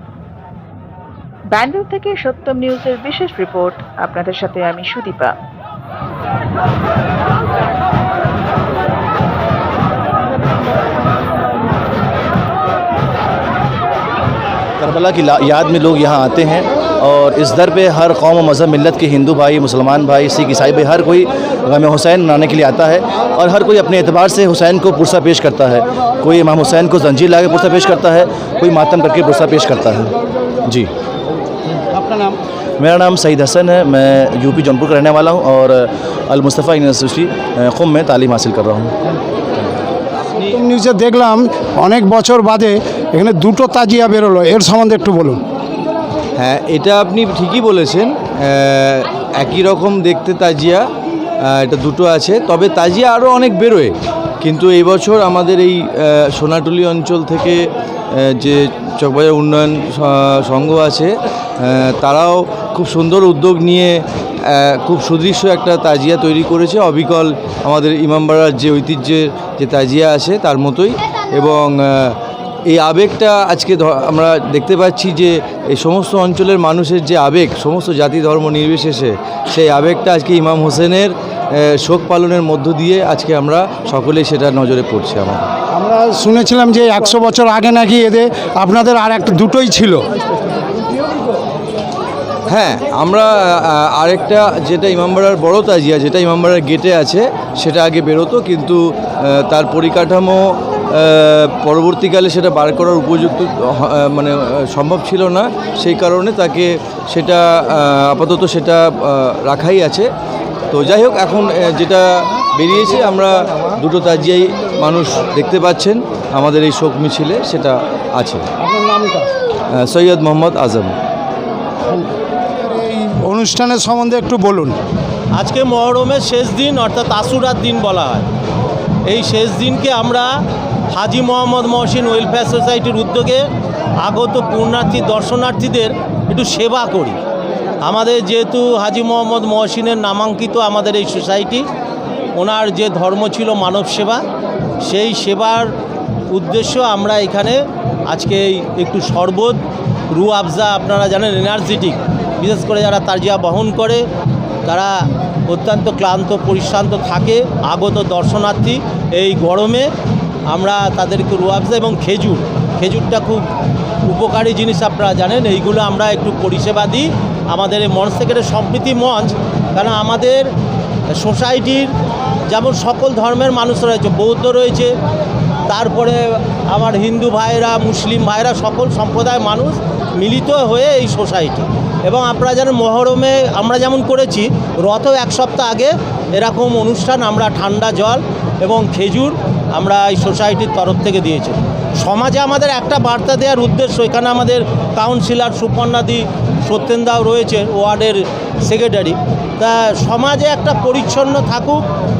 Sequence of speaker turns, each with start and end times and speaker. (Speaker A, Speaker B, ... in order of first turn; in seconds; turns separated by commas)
Speaker A: 1.5-5.3, Speaker B: 14.8-30.1, Speaker C: 31.9-32.4, Speaker B: 32.8-38.9, Speaker C: 40.5-45.4, Speaker D: 46.4-50.8, Speaker D: 51.5-57.6, Speaker D: 58.1-85.5, Speaker C: 85.7-90.0, Speaker D: 92.5-100.4, Speaker D: 100.9-110.1, Speaker D: 110.7-118.5, Speaker C: 118.6-119.3, Speaker D: 119.8-120.9, Speaker C: 121.9-124.8, Speaker E: 125.4-128.3, Speaker E: 129.1-130.3, Speaker E: 130.9-133.5, Speaker E: 134.0-137.2, Speaker E: 137.8-141.7, Speaker E: 142.4-144.2, Speaker E: 144.8-145.7, Speaker E: 146.3-149.6, Speaker E: 150.1-154.0, Speaker E: 154.7-154.9, Speaker E: 155.5-159.9, Speaker E: 160.5-163.4, Speaker E: 164.1-170.5, Speaker E: 171.1-171.9, Speaker E: 172.5-174.9, Speaker E: 175.7-201.8